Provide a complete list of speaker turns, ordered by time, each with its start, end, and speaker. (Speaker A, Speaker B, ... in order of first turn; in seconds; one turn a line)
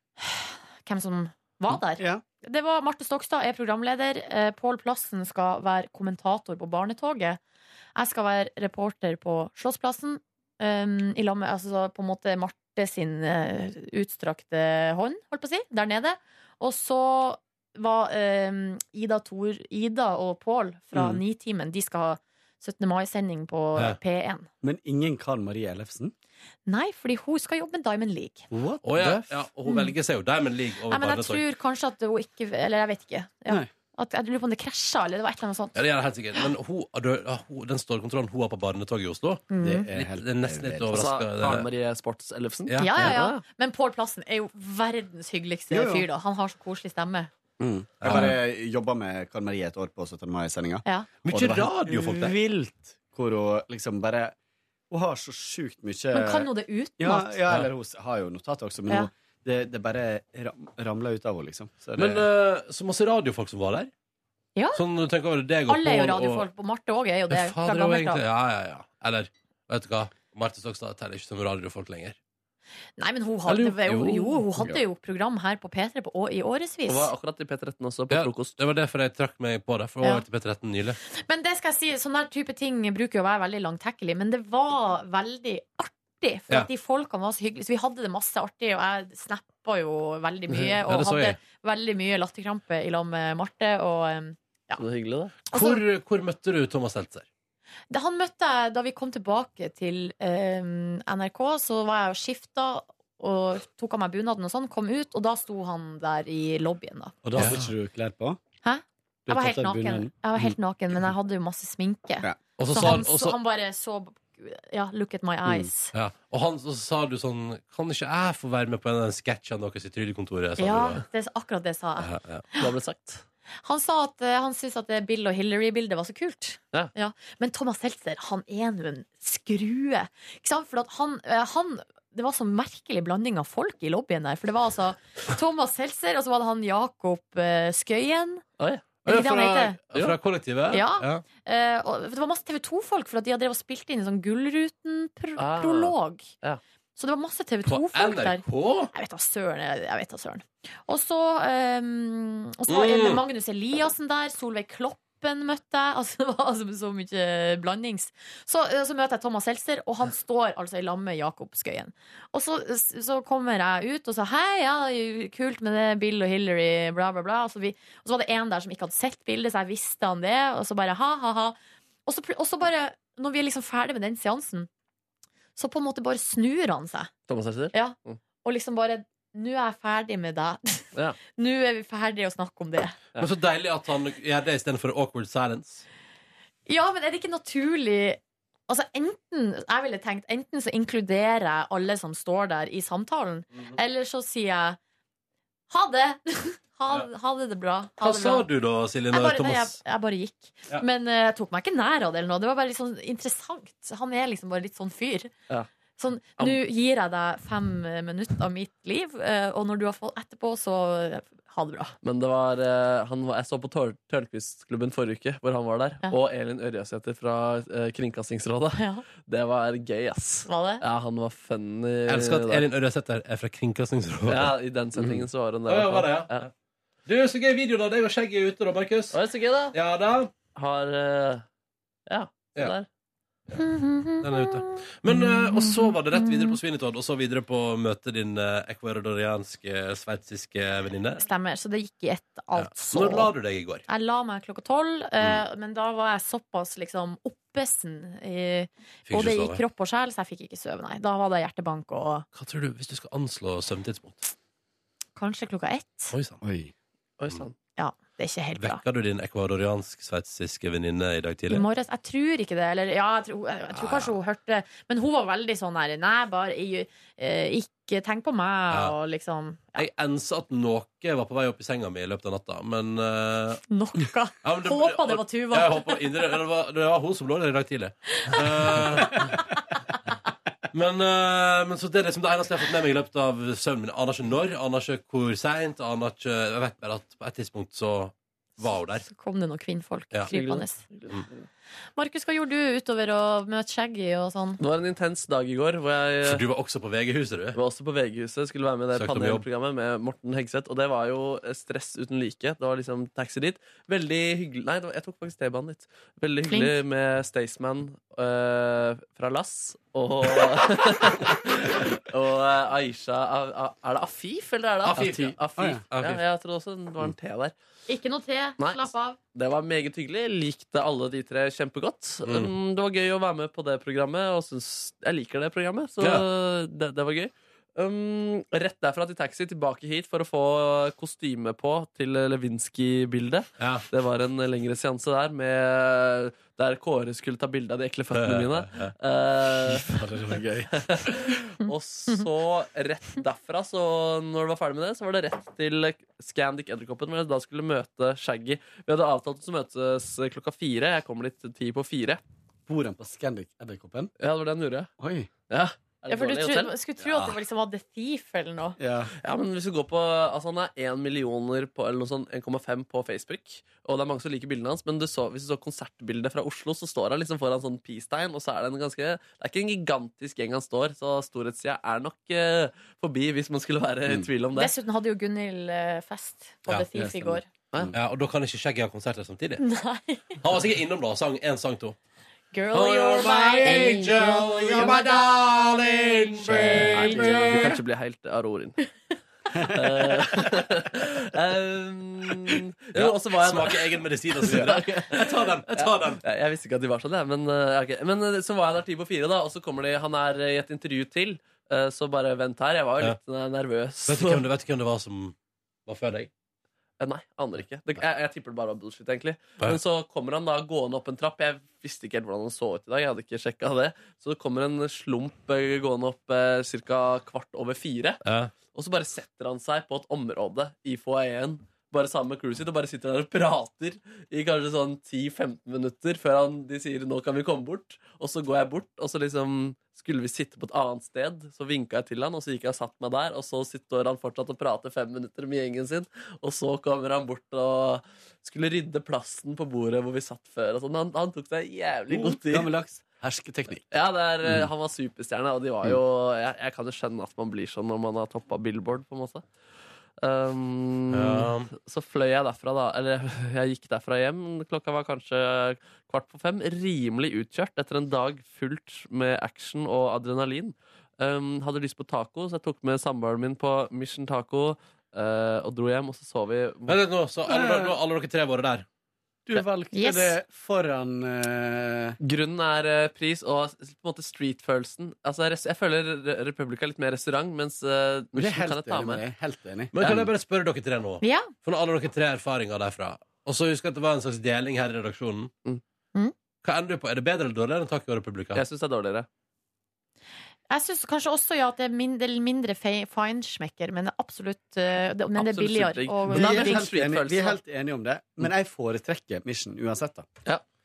Speaker A: 0.2-7.4
Speaker B: 1.9-2.2
Speaker A: 8.0-24.5
Speaker B: 20.9-21.2
Speaker B: 24.6-26.1
Speaker A: 26.6-28.5
Speaker B: 28.5-29.2
Speaker C: 28.8-31.4
Speaker A: 29.6-29.9
Speaker A: 30.9-35.8
Speaker C: 35.7-41.7
Speaker A: 39.5-39.9
Speaker B: 39.6-41.0
Speaker D: 40.9-43.4
Speaker C: 42.7-43.2
Speaker A: 42.8-47.3
Speaker B: 45.7-46.0
Speaker B: 47.6-54.3
Speaker C: 48.0-48.4
Speaker C: 51.2-52.3
Speaker B: 54.9-62.2
Speaker A: 56.1-57.4
Speaker C: 62.0-63.9
Speaker A: 64.5-64.8
Speaker C: 64.7-66.5
Speaker A: 65.7-68.2
Speaker C: 67.3-72.2
Speaker A: 73.0-77.1
Speaker C: 73.5-74.5
Speaker D: 76.9-78.5
Speaker C: 78.1-81.0
Speaker A: 81.1-94.8
Speaker C: 90.6-91.4
Speaker D: 94.8-95.3
Speaker A: 95.5-95.8
Speaker C: 95.5-97.3
Speaker A: 97.9-107.2
Speaker B: 107.2-108.4
Speaker C: 107.3-107.7
Speaker A: 108.6-115.9
Speaker B: 109.2-110.5
Speaker C: 112.6-113.4
Speaker C: 115.9-121.0
Speaker A: 120.6-122.6
Speaker C: 122.0-122.4
Speaker D: 122.6-123.2
Speaker A: 123.6-138.4
Speaker D: 138.6-138.8
Speaker A: 139.0-139.8
Speaker C: 139.0-141.2
Speaker A: 140.7-146.3
Speaker D: 145.4-146.6
Speaker A: 147.0-174.7
Speaker C: 147.7-148.9
Speaker C: 152.7-153.2
Speaker A: 175.6-177.1
Speaker D: 177.3-178.2
Speaker A: 177.7-182.9
Speaker C: 183.2-185.8
Speaker A: 186.7-194.8
Speaker A: 195.7-198.4
Speaker C: 198.0-199.8
Speaker A: 199.1-205.3
Speaker A: 206.0-211.9
Speaker D: 212.0-222.7
Speaker A: 218.8-219.0
Speaker A: 220.4-220.8
Speaker C: 222.1-224.5
Speaker D: 224.3-226.5
Speaker B: 225.0-225.2
Speaker C: 225.7-226.5
Speaker C: 227.1-229.2
Speaker D: 229.1-229.7
Speaker C: 229.7-230.3
Speaker D: 230.5-231.4
Speaker D: 232.1-232.9
Speaker A: 233.6-236.6
Speaker C: 234.2-241.2
Speaker A: 241.2-243.3
Speaker C: 242.5-243.8
Speaker A: 243.9-252.2
Speaker C: 249.1-249.6
Speaker C: 252.3-254.3
Speaker A: 255.2-256.1
Speaker C: 256.1-256.4
Speaker B: 256.4-256.7
Speaker D: 257.2-257.5
Speaker A: 257.8-258.8
Speaker C: 258.6-261.6
Speaker A: 261.5-269.8
Speaker C: 263.7-264.1
Speaker C: 268.7-268.9
Speaker C: 269.8-273.6
Speaker A: 273.7-276.3
Speaker C: 274.4-279.3
Speaker A: 278.1-279.2
Speaker C: 280.7-289.0
Speaker A: 289.0-290.8
Speaker D: 290.3-291.5
Speaker A: 292.0-294.6
Speaker D: 294.6-296.4
Speaker C: 296.2-297.6
Speaker D: 297.5-317.5
Speaker C: 298.9-299.4
Speaker A: 306.5-306.7
Speaker C: 314.8-315.4
Speaker B: 315.0-315.8
Speaker C: 315.9-316.2
Speaker A: 317.9-319.2
Speaker D: 318.6-352.2
Speaker C: 322.2-322.5
Speaker C: 326.0-326.2
Speaker C: 333.6-333.8
Speaker C: 338.1-338.9
Speaker B: 339.6-341.2
Speaker B: 352.7-354.1
Speaker D: 354.2-354.9
Speaker B: 355.0-355.3
Speaker D: 355.5-356.7
Speaker A: 356.1-358.8
Speaker B: 358.8-359.1
Speaker D: 359.2-374.7
Speaker A: 374.5-377.4
Speaker B: 376.9-377.9
Speaker C: 377.9-379.6
Speaker A: 379.6-380.4
Speaker C: 380.4-382.0
Speaker A: 382.5-385.1
Speaker C: 382.7-387.8
Speaker A: 386.4-387.7
Speaker D: 386.7-388.8
Speaker B: 389.5-389.8
Speaker D: 389.7-404.4
Speaker C: 392.9-396.2
Speaker C: 404.0-405.3
Speaker C: 405.9-406.3
Speaker D: 407.0-442.7
Speaker C: 418.2-418.5
Speaker B: 442.1-443.8
Speaker D: 443.9-449.4
Speaker D: 450.2-467.0
Speaker C: 451.1-451.7
Speaker C: 466.9-468.9
Speaker B: 467.4-467.9
Speaker B: 469.4-472.1
Speaker A: 469.9-470.4
Speaker D: 472.2-479.2
Speaker B: 478.3-480.3
Speaker C: 479.9-485.5
Speaker A: 481.2-481.5
Speaker C: 486.6-488.6
Speaker D: 488.5-489.3
Speaker A: 490.7-496.8
Speaker D: 495.4-497.6
Speaker B: 496.3-500.3